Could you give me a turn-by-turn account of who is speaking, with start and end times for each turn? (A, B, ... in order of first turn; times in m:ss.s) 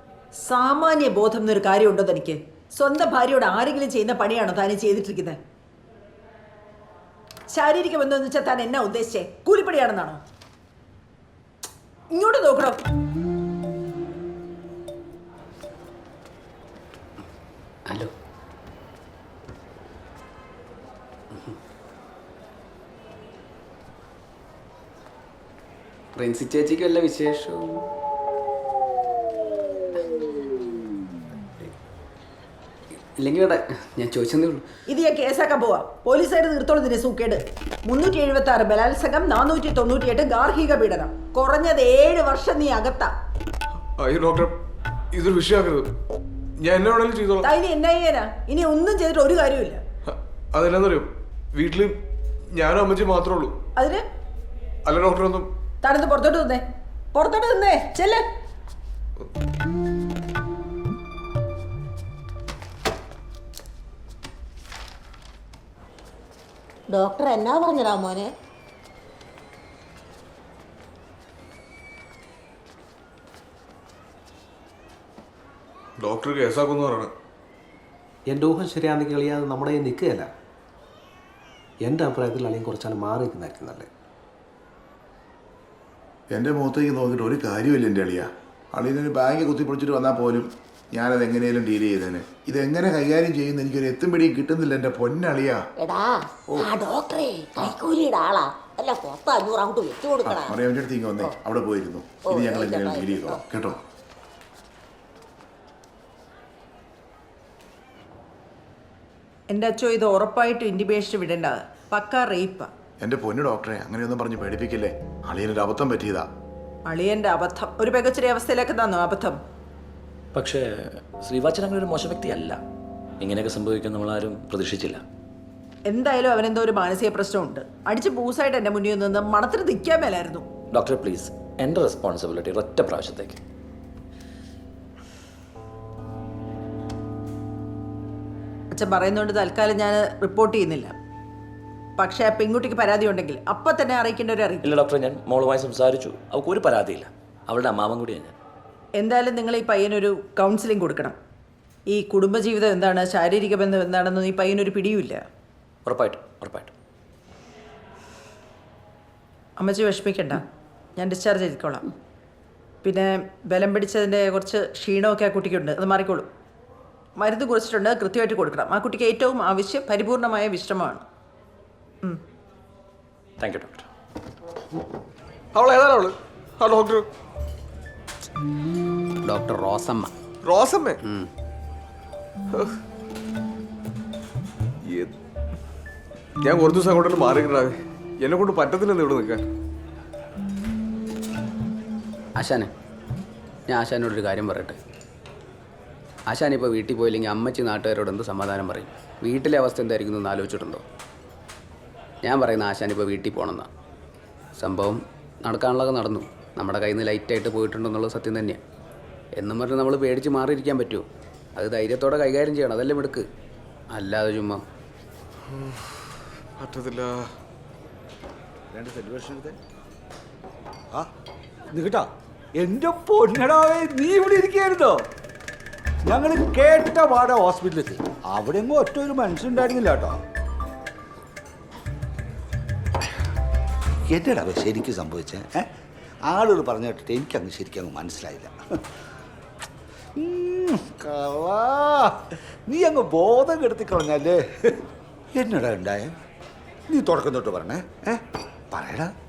0:00.4-0:05.4 A
0:07.5-0:10.2 A
0:12.1-0:12.8 A
0:26.1-0:27.9 B
0:33.2-0:34.6 B
0:34.9-0:43.1 A
0:44.0-0:44.5 C
0:45.1-0:45.9 C
0:46.6-0:47.5 C
0:47.4-0:49.8 A
0:50.1-0:51.9 C
0:52.5-0:53.5 C
0:54.9-0:55.5 C
0:55.8-0:56.6 A
0:57.1-0:58.2 A
1:06.9-1:08.3 D
1:16.0-1:17.1 C
1:18.3-1:20.3 E
1:21.8-1:23.9 E
1:26.3-1:35.6 F
1:35.8-1:40.5 D
1:40.2-1:43.8 F
1:42.2-1:43.4 D
1:49.5-1:52.7 A
1:53.0-1:56.3 F
1:56.9-1:59.4 A
2:00.3-2:02.6 G
2:03.2-2:05.0 G
2:05.9-2:10.4 A
2:10.7-2:13.4 G
2:18.7-2:20.9 A
2:22.0-2:24.7 A
2:24.6-2:28.4 G
2:29.0-2:31.1 A
2:31.9-2:35.2 A
2:35.8-2:36.7 G
2:39.6-2:40.4 A
2:41.0-2:41.8 A
2:42.8-2:46.3 A
2:47.2-2:51.0 A
2:53.4-2:53.8 G
2:55.5-2:57.0 C
2:59.2-3:00.1 B
3:00.4-3:01.0 C
3:01.0-3:01.3 B
3:06.4-3:09.5 C
3:12.4-3:12.7 B
3:13.7-3:14.8 B
3:16.3-3:20.8 B
3:22.2-3:23.7 B
3:24.6-3:28.6 B
3:29.4-3:31.0 B
3:31.6-3:33.2 B
3:33.9-3:34.6 B
3:36.6-3:37.1 C
3:38.7-3:39.6 H
3:41.7-3:45.0 H
3:46.0-3:50.2 H
3:54.1-3:55.7 H
3:56.2-3:58.5 H
4:00.2-4:04.8 H
4:05.3-4:06.1 H
4:06.9-4:09.1 H